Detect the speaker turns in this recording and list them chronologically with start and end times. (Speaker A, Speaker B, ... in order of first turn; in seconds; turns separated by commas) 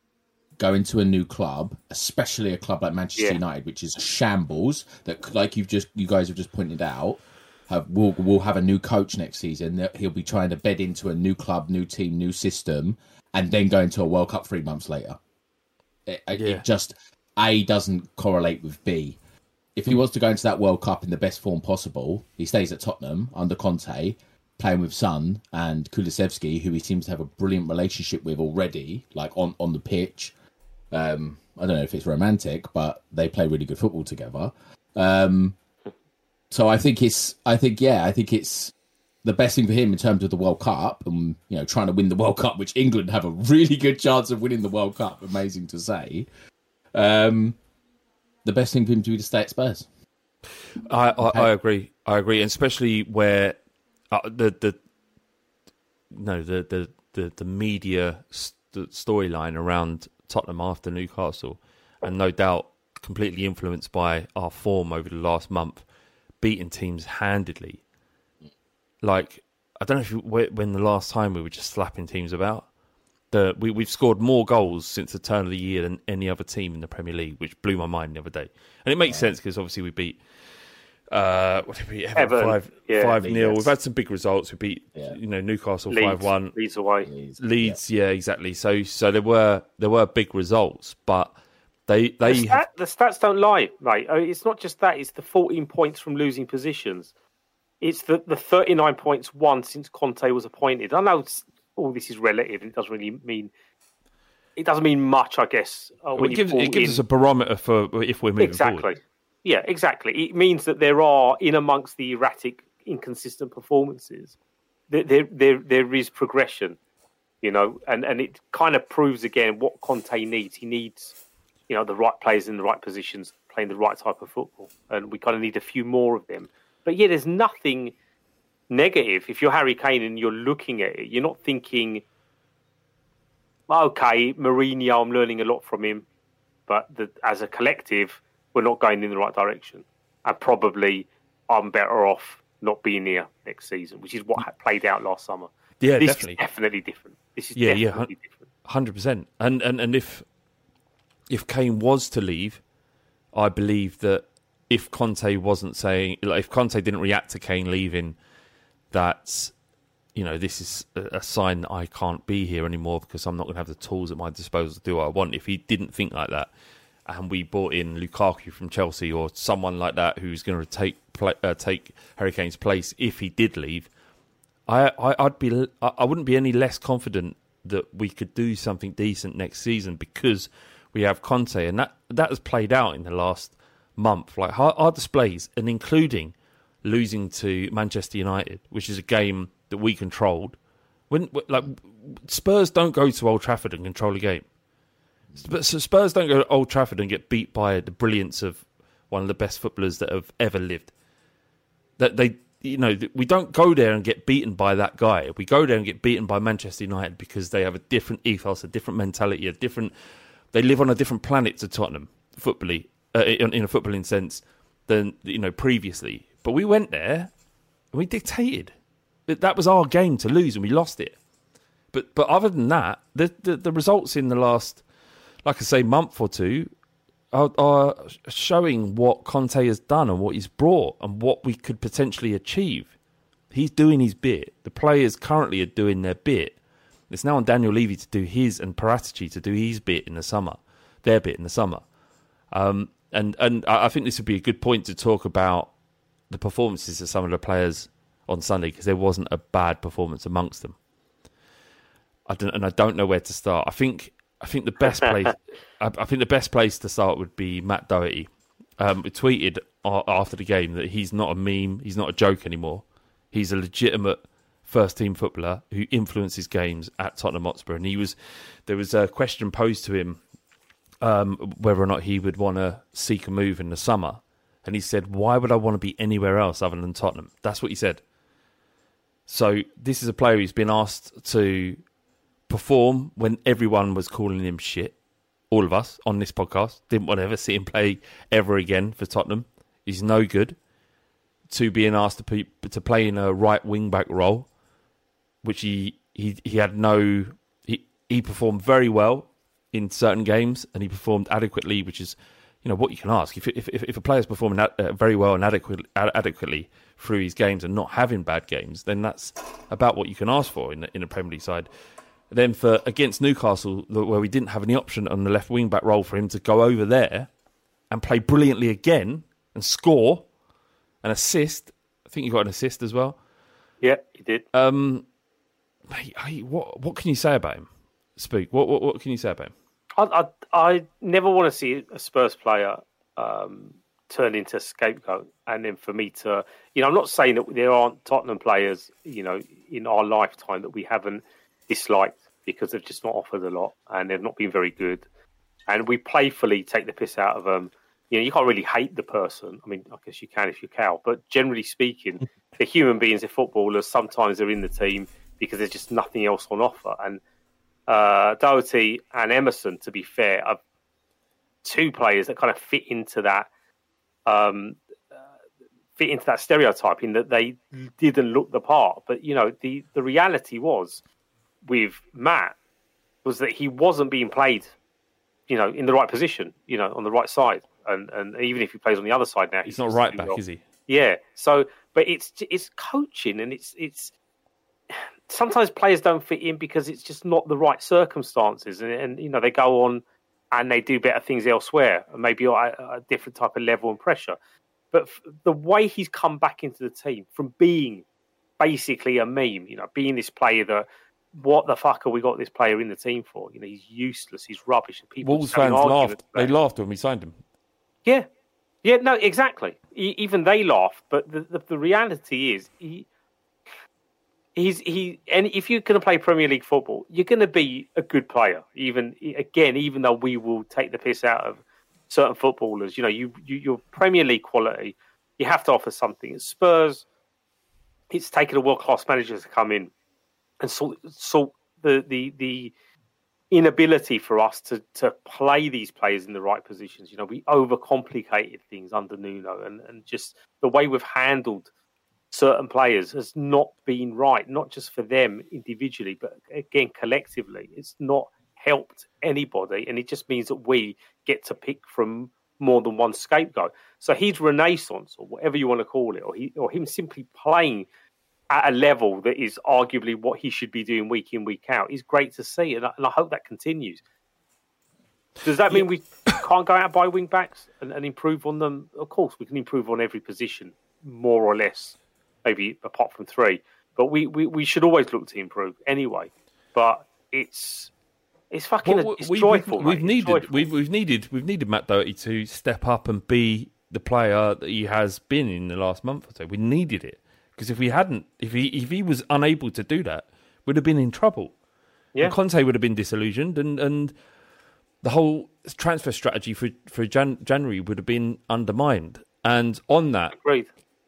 Speaker A: 0.6-15.2, Speaker A: 16.1-19.2, Speaker B: 16.4-16.6, Speaker A: 19.8-30.3, Speaker A: 30.9-35.5, Speaker A: 36.5-38.7, Speaker A: 39.2-46.3, Speaker A: 46.9-47.6, Speaker A: 48.4-49.9, Speaker B: 50.9-53.6, Speaker A: 51.2-51.5, Speaker B: 54.1-54.8, Speaker B: 56.1-65.8, Speaker B: 66.4-67.8, Speaker B: 69.0-72.7, Speaker B: 73.3-80.2, Speaker A: 79.0-79.3, Speaker B: 81.1-86.5, Speaker C: 82.2-83.3, Speaker A: 83.2-83.6, Speaker C: 85.9-87.1, Speaker A: 87.0-87.8, Speaker B: 87.4-92.6, Speaker C: 92.2-97.1, Speaker C: 97.8-103.5, Speaker C: 104.6-107.0, Speaker B: 106.2-108.9, Speaker C: 108.4-114.3, Speaker C: 114.9-116.8, Speaker C: 117.4-121.2, Speaker C: 121.7-127.9, Speaker C: 128.7-132.0, Speaker C: 133.7-136.0, Speaker C: 136.7-148.4, Speaker B: 145.8-146.4, Speaker B: 147.6-148.1, Speaker B: 148.7-150.2, Speaker B: 151.3-152.6, Speaker B: 153.3-158.2, Speaker B: 158.9-159.5, Speaker B: 160.1-166.5, Speaker B: 167.1-173.9, Speaker B: 174.7-190.6, Speaker B: 191.1-194.4, Speaker B: 195.4-200.9, Speaker B: 202.0-209.9, Speaker B: 210.5-217.3, Speaker B: 217.9-218.7, Speaker B: 219.3-221.2, Speaker B: 221.9-224.8, Speaker B: 225.4-226.7, Speaker B: 227.3-232.9, Speaker B: 233.5-236.6, Speaker B: 237.1-241.8, Speaker B: 242.5-245.7, Speaker B: 246.3-250.8, Speaker B: 252.3-270.2, Speaker B: 271.0-278.0, Speaker B: 279.3-281.8, Speaker B: 282.5-285.0, Speaker B: 285.5-290.6, Speaker B: 291.5-294.5, Speaker B: 295.4-311.7, Speaker B: 312.3-317.3, Speaker B: 317.9-320.3, Speaker B: 321.0-323.2, Speaker C: 323.8-324.4, Speaker B: 324.5-325.1, Speaker B: 325.9-329.5, Speaker C: 330.0-345.1, Speaker C: 345.7-357.2, Speaker C: 357.9-360.6, Speaker C: 361.6-363.5, Speaker C: 364.2-365.2, Speaker C: 366.0-371.0, Speaker C: 371.6-372.6, Speaker C: 373.2-374.7, Speaker C: 375.5-384.1, Speaker B: 379.6-380.6, Speaker C: 385.3-394.4, Speaker C: 394.9-398.0, Speaker C: 398.6-406.5, Speaker B: 405.2-407.4, Speaker C: 408.8-413.1, Speaker C: 414.5-427.0, Speaker C: 428.1-429.9, Speaker C: 430.6-432.7, Speaker C: 433.5-441.7, Speaker C: 442.3-457.9, Speaker C: 458.5-464.0, Speaker C: 465.4-477.9, Speaker C: 478.5-480.7, Speaker B: 478.8-491.5, Speaker B: 492.2-494.1, Speaker B: 495.0-500.3, Speaker C: 500.3-500.7